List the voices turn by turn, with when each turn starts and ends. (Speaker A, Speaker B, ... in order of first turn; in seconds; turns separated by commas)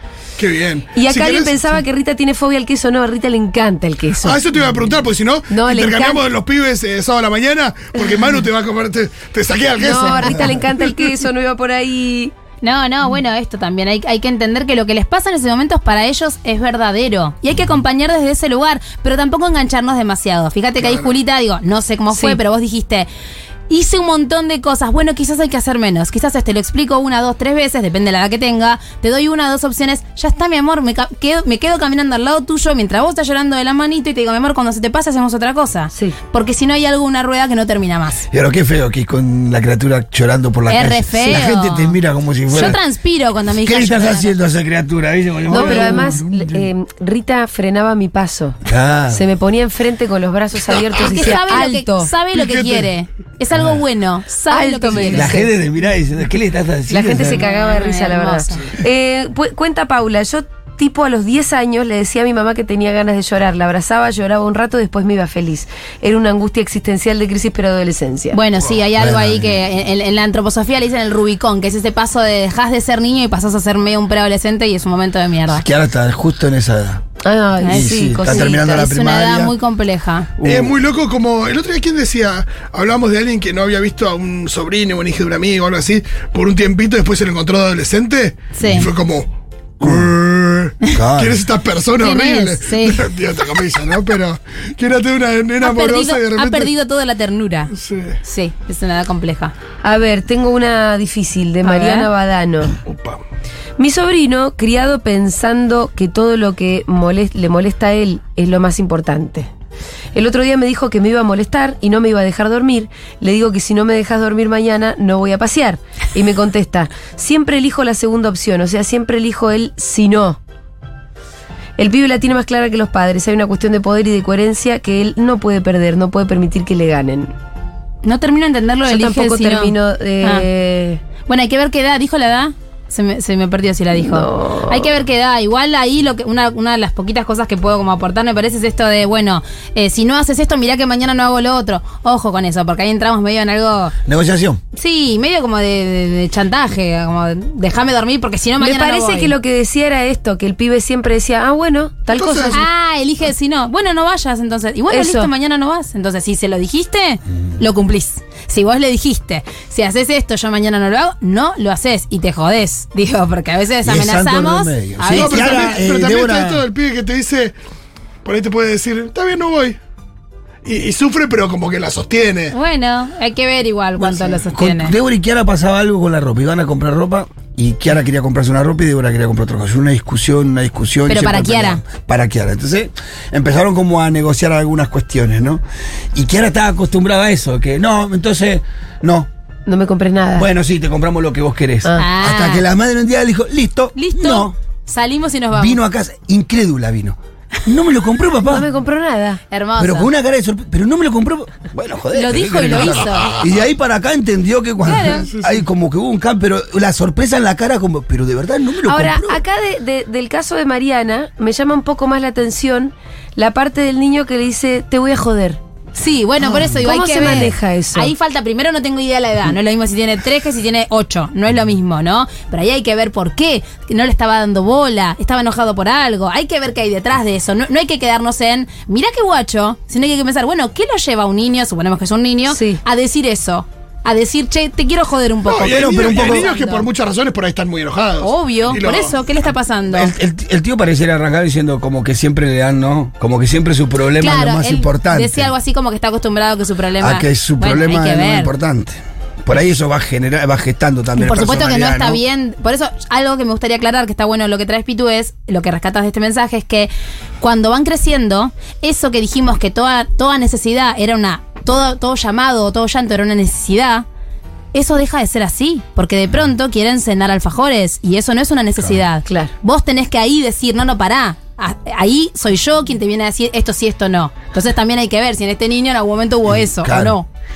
Speaker A: 0.4-1.8, Speaker B: 0.9-4.4, Speaker A: 4.2-11.0, Speaker B: 5.5-6.2, Speaker B: 9.8-12.3, Speaker C: 12.6-23.1, Speaker B: 22.1-22.4, Speaker C: 23.7-38.2, Speaker D: 38.3-42.8, Speaker C: 40.7-42.0, Speaker C: 42.5-44.3, Speaker D: 43.6-46.7, Speaker B: 45.5-48.6, Speaker C: 45.5-46.1, Speaker D: 48.6-49.2, Speaker B: 49.1-52.1, Speaker C: 51.0-55.3, Speaker A: 52.3-52.9, Speaker D: 53.5-53.8, Speaker B: 54.5-55.5, Speaker D: 55.1-57.4, Speaker B: 56.9-68.4, Speaker C: 57.4-58.7, Speaker C: 68.3-75.6, Speaker D: 69.0-69.5, Speaker D: 75.5-77.0, Speaker B: 77.2-78.9, Speaker C: 77.6-80.3, Speaker D: 77.7-79.5, Speaker D: 80.4-80.7, Speaker A: 80.4-89.3, Speaker C: 88.5-88.9, Speaker A: 89.8-96.7, Speaker D: 89.8-90.1, Speaker D: 90.9-91.4, Speaker C: 92.0-93.0, Speaker C: 95.6-99.5, Speaker A: 97.7-98.2, Speaker B: 99.8-102.8, Speaker C: 101.6-102.1, Speaker A: 102.8-103.2, Speaker B: 103.8-109.5, Speaker B: 110.1-120.4, Speaker B: 121.8-127.3, Speaker C: 128.0-130.5, Speaker B: 128.8-131.0, Speaker C: 131.3-143.9, Speaker B: 133.9-134.9, Speaker D: 144.0-144.6, Speaker C: 144.7-149.3, Speaker B: 148.6-152.6, Speaker A: 152.1-152.6, Speaker C: 152.5-165.8, Speaker B: 154.9-155.3, Speaker D: 163.8-166.6, Speaker A: 165.1-167.5, Speaker A: 168.2-169.8, Speaker A: 170.6-172.5, Speaker C: 172.5-174.9, Speaker D: 174.0-185.6, Speaker C: 181.1-181.8, Speaker D: 186.1-189.3, Speaker B: 189.7-190.5, Speaker D: 190.3-194.5, Speaker C: 192.0-192.7, Speaker C: 193.9-195.8, Speaker D: 195.6-198.7, Speaker B: 198.4-199.4, Speaker C: 199.5-200.1, Speaker D: 199.8-209.4, Speaker C: 202.1-203.4, Speaker C: 204.8-205.3, Speaker B: 204.8-205.2, Speaker B: 208.8-215.6, Speaker C: 215.9-236.9, Speaker D: 216.4-217.5, Speaker B: 216.8-218.1, Speaker B: 232.5-232.8, Speaker A: 235.4-239.2, Speaker D: 235.7-236.4, Speaker C: 238.2-240.1, Speaker D: 239.9-245.5, Speaker C: 244.2-248.5, Speaker D: 247.0-252.2, Speaker C: 251.2-264.0, Speaker C: 264.7-277.3, Speaker B: 269.2-269.5, Speaker D: 276.5-277.1